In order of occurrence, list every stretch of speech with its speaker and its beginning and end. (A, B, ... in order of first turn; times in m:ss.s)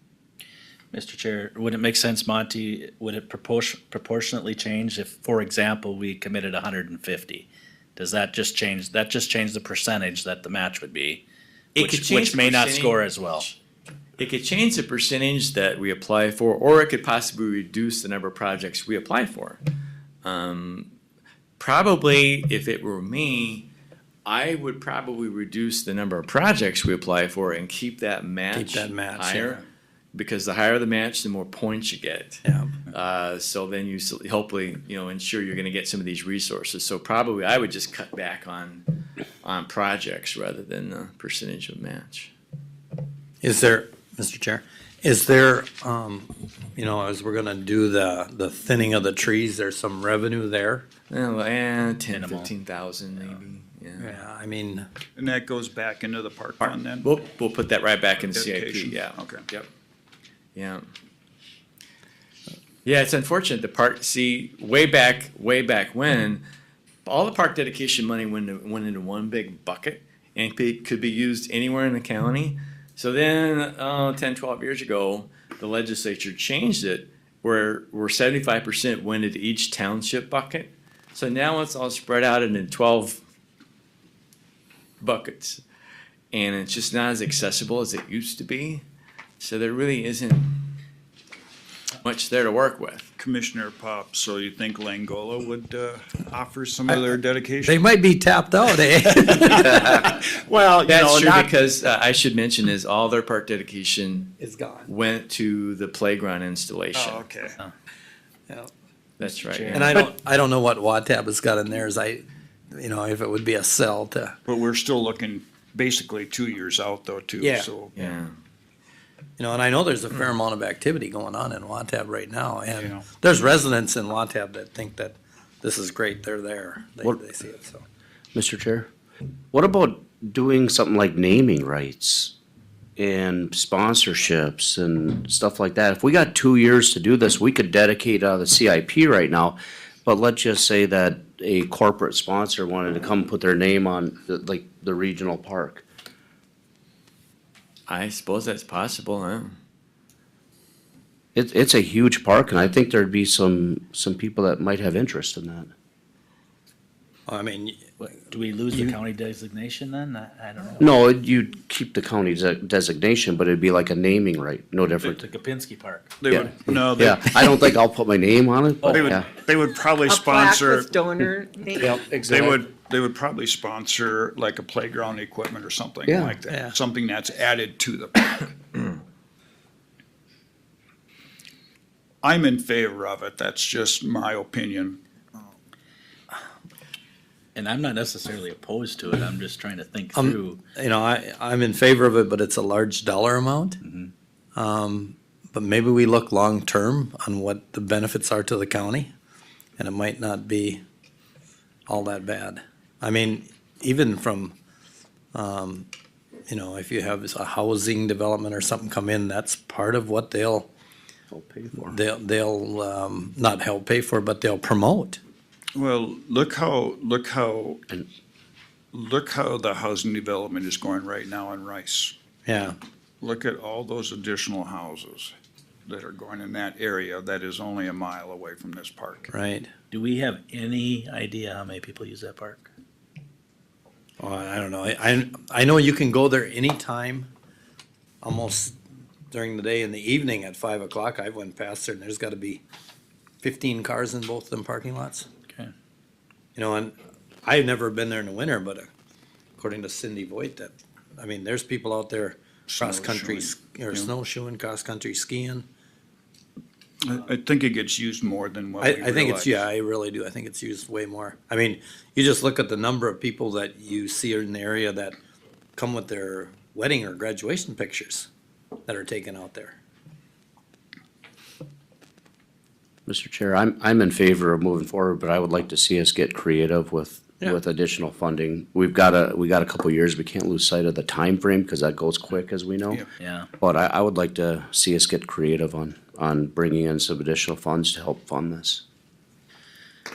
0:00.9-0:11.2 A
0:11.8-0:13.5 A
0:11.8-0:13.5 B
0:14.2-0:19.6 B
0:20.2-0:20.9 B
0:21.6-0:23.7 B
0:24.2-0:29.6 B
0:28.5-0:29.6 C
0:30.1-0:38.8 B
0:32.4-0:32.7 C
0:39.4-0:42.3 B
0:43.4-0:50.8 C
0:51.1-0:54.1 B
0:52.1-0:52.5 A
0:54.0-0:54.9 C
0:55.2-0:57.1 D
0:56.6-0:59.7 B
0:58.2-0:59.4 D
1:00.5-1:00.8 B
1:02.8-1:06.4 B
1:07.0-1:23.2 B
1:25.0-1:25.6 B
1:26.3-1:28.8 B
1:29.4-1:30.7 B
1:32.0-1:33.1 B
1:33.2-1:37.8 D
1:37.6-1:40.1 C
1:39.4-1:41.5 D
1:39.4-1:40.0 B
1:40.8-1:47.2 B
1:44.4-1:44.9 C
1:46.9-1:47.6 D
1:49.2-1:50.0 B
1:49.4-1:50.0 A
1:49.7-1:54.4 C
1:54.4-1:58.2 D
1:57.4-1:57.7 C
1:58.0-1:58.3 B
1:59.4-2:07.8 C
2:02.8-2:03.0 D
2:08.3-2:08.9 E
2:09.5-2:12.3 E
2:13.0-2:25.8 E
2:27.9-2:29.5 B
2:31.3-2:35.7 E
2:37.3-2:37.8 C
2:38.0-2:41.0 A
2:38.7-2:39.0 C
2:40.8-2:45.2 E
2:45.1-2:46.2 A
2:46.2-2:47.6 D
2:46.3-2:49.3 E
2:48.8-2:50.9 D
2:50.0-2:52.4 F
2:51.8-2:52.4 C
2:52.2-2:58.5 D
2:56.1-2:56.4 E
2:56.5-2:56.7 C
3:02.2-3:05.0 D
3:07.5-3:10.6 A
3:10.1-3:13.8 C
3:13.8-3:14.1 A
3:14.5-3:19.1 C
3:19.8-3:20.8 C
3:21.9-3:24.6 C
3:25.3-3:25.9 C
3:26.5-3:30.7 C
3:31.3-3:32.0 E
3:31.8-3:35.2 C
3:35.7-3:37.8 D
3:38.9-3:42.1 D
3:42.4-3:42.8 C
3:43.2-3:45.3 D
3:45.8-3:49.3 D
3:49.3-3:49.7 C
3:49.9-3:52.6 A
3:54.2-3:57.3 C
3:58.2-3:58.8 C
3:59.3-4:02.6 C
4:03.4-4:05.3 C
4:06.6-4:08.9 C
4:09.6-4:15.6 C
4:12.7-4:14.1 D
4:17.0-4:19.6 D
4:18.8-4:25.2 C
4:25.7-4:28.3 C
4:28.8-4:29.8 C
4:33.0-4:43.0 E
4:43.2-4:43.5 A
4:43.6-4:48.8 E